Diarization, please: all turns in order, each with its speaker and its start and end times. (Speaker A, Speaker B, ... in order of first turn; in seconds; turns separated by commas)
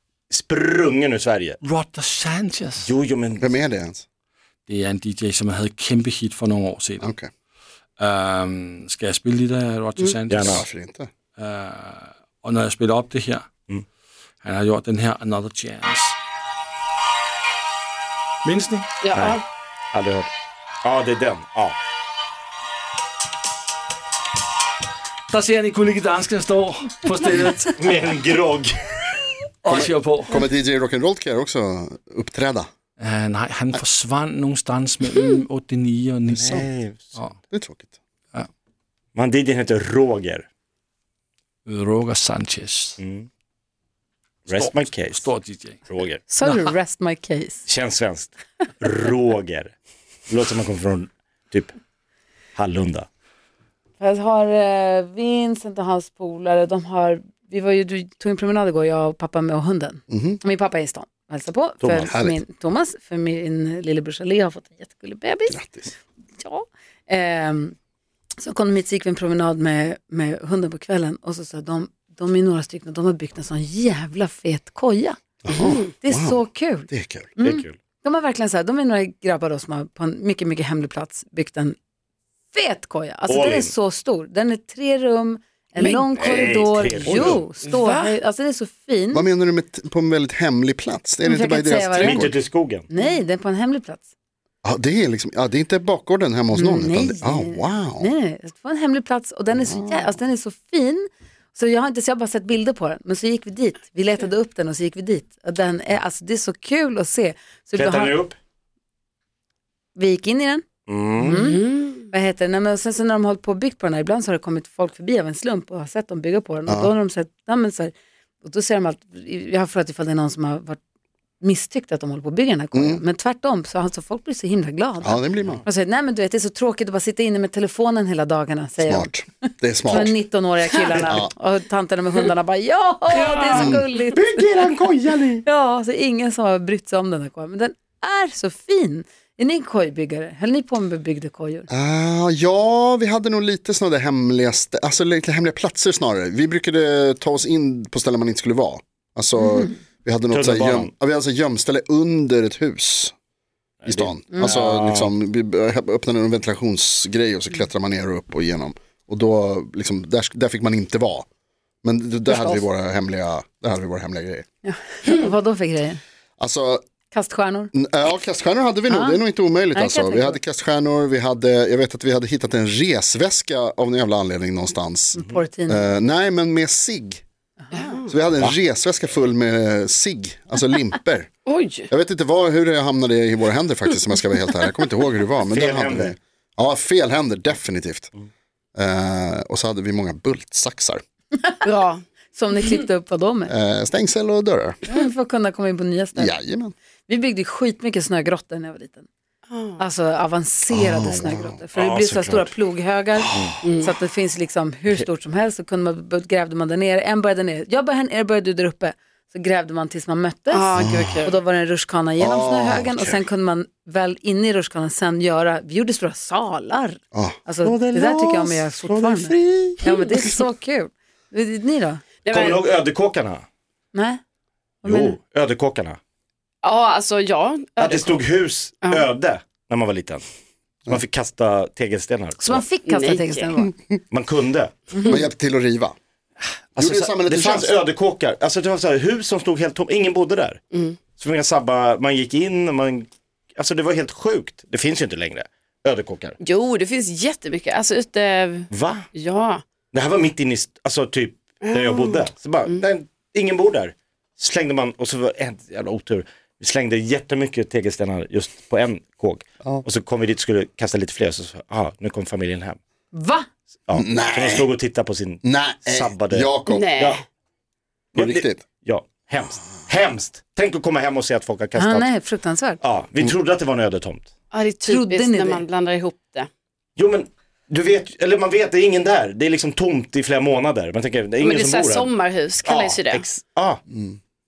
Speaker A: 0.3-1.6, Speaker B: 1.6-2.9, Speaker A: 2.8-3.5, Speaker C: 3.4-4.0, Speaker B: 4.7-7.1, Speaker C: 7.0-7.3, Speaker B: 8.0-10.6, Speaker A: 10.3-10.6, Speaker C: 10.4-11.1, Speaker B: 11.4-13.5, Speaker B: 14.4-16.2, Speaker B: 18.4-18.9, Speaker D: 19.0-19.4, Speaker A: 19.1-19.4, Speaker A: 19.9-20.3, Speaker A: 20.8-21.8, Speaker B: 25.3-27.8, Speaker A: 27.8-29.0, Speaker B: 29.6-30.4, Speaker C: 29.7-32.7, Speaker B: 33.0-37.3, Speaker A: 36.3-37.1, Speaker C: 37.5-37.9, Speaker A: 39.1-40.5, Speaker B: 41.6-43.0, Speaker A: 43.0-43.3, Speaker A: 44.5-45.3, Speaker B: 44.5-45.8, Speaker A: 45.9-46.2, Speaker E: 46.3-47.6, Speaker B: 46.4-46.7, Speaker A: 47.7-49.7, Speaker A: 50.3-51.7, Speaker A: 52.5-53.1, Speaker E: 54.0-65.6, Speaker C: 60.1-60.4, Speaker A: 61.8-62.1, Speaker C: 62.1-62.4, Speaker C: 65.5-65.9, Speaker E: 66.4-67.7, Speaker E: 68.4-75.2, Speaker C: 75.4-77.3, Speaker D: 75.5-75.8, Speaker E: 76.0-81.8, Speaker A: 77.4-77.8, Speaker E: 82.5-89.2, Speaker A: 83.3-83.7, Speaker D: 85.8-88.1, Speaker A: 86.1-87.4, Speaker C: 89.1-92.3, Speaker E: 91.2-92.4, Speaker A: 92.0-92.8, Speaker E: 92.9-94.1, Speaker C: 94.6-98.1, Speaker E: 96.5-108.2, Speaker C: 99.5-100.1, Speaker A: 107.8-108.4, Speaker E: 109.9-110.6, Speaker A: 110.9-111.4, Speaker D: 111.2-112.0, Speaker E: 111.2-120.8, Speaker C: 116.7-116.9, Speaker E: 121.4-129.2, Speaker C: 122.7-123.0, Speaker C: 125.0-125.6, Speaker C: 128.8-130.2, Speaker E: 129.9-134.2, Speaker C: 130.9-131.3, Speaker D: 133.1-133.8, Speaker C: 133.5-133.8, Speaker A: 134.1-135.4, Speaker E: 135.4-141.7, Speaker C: 141.7-153.1, Speaker A: 150.3-150.9, Speaker A: 153.8-155.1, Speaker C: 153.9-161.2, Speaker C: 161.8-164.4, Speaker E: 162.3-162.6, Speaker E: 164.6-166.0, Speaker C: 166.4-166.8, Speaker E: 167.1-167.7, Speaker C: 167.7-177.2, Speaker E: 168.9-170.4, Speaker E: 175.1-175.8, Speaker E: 177.7-178.0, Speaker D: 177.7-178.1, Speaker C: 178.1-181.3, Speaker D: 181.5-181.9, Speaker C: 181.9-188.1, Speaker A: 185.4-186.1, Speaker C: 188.8-191.0, Speaker D: 191.6-192.0, Speaker E: 192.3-193.5, Speaker C: 193.5-194.8, Speaker E: 194.9-196.3, Speaker C: 196.2-196.7, Speaker E: 197.1-199.1, Speaker D: 199.5-199.8, Speaker E: 199.8-210.6, Speaker C: 200.7-201.6, Speaker A: 201.7-202.5, Speaker D: 203.6-203.9, Speaker D: 210.5-211.3, Speaker C: 210.7-211.2, Speaker E: 211.2-222.0, Speaker C: 212.2-213.2, Speaker C: 217.1-217.4, Speaker A: 217.6-219.8, Speaker D: 222.2-222.7, Speaker A: 222.3-223.4, Speaker E: 223.9-224.2, Speaker E: 224.8-225.1, Speaker A: 224.8-226.0, Speaker D: 226.6-228.2, Speaker A: 227.8-230.2, Speaker D: 228.8-229.1, Speaker A: 230.9-232.6, Speaker E: 232.4-233.7, Speaker D: 232.8-233.5, Speaker A: 234.1-234.7, Speaker C: 235.0-235.9, Speaker A: 236.7-240.6, Speaker C: 236.8-237.8, Speaker D: 240.7-241.0, Speaker A: 241.1-246.4, Speaker D: 246.4-249.6, Speaker A: 248.7-249.1, Speaker A: 249.9-262.8, Speaker D: 251.6-252.8, Speaker E: 263.1-263.4, Speaker A: 263.9-267.2, Speaker C: 263.9-264.8, Speaker C: 265.4-266.9, Speaker D: 266.7-267.2, Speaker A: 268.1-272.1, Speaker C: 268.1-268.6, Speaker E: 271.7-272.8, Speaker A: 272.8-274.3, Speaker D: 274.5-276.5, Speaker E: 274.9-275.6, Speaker A: 277.0-283.8, Speaker D: 281.4-283.3, Speaker C: 283.9-284.2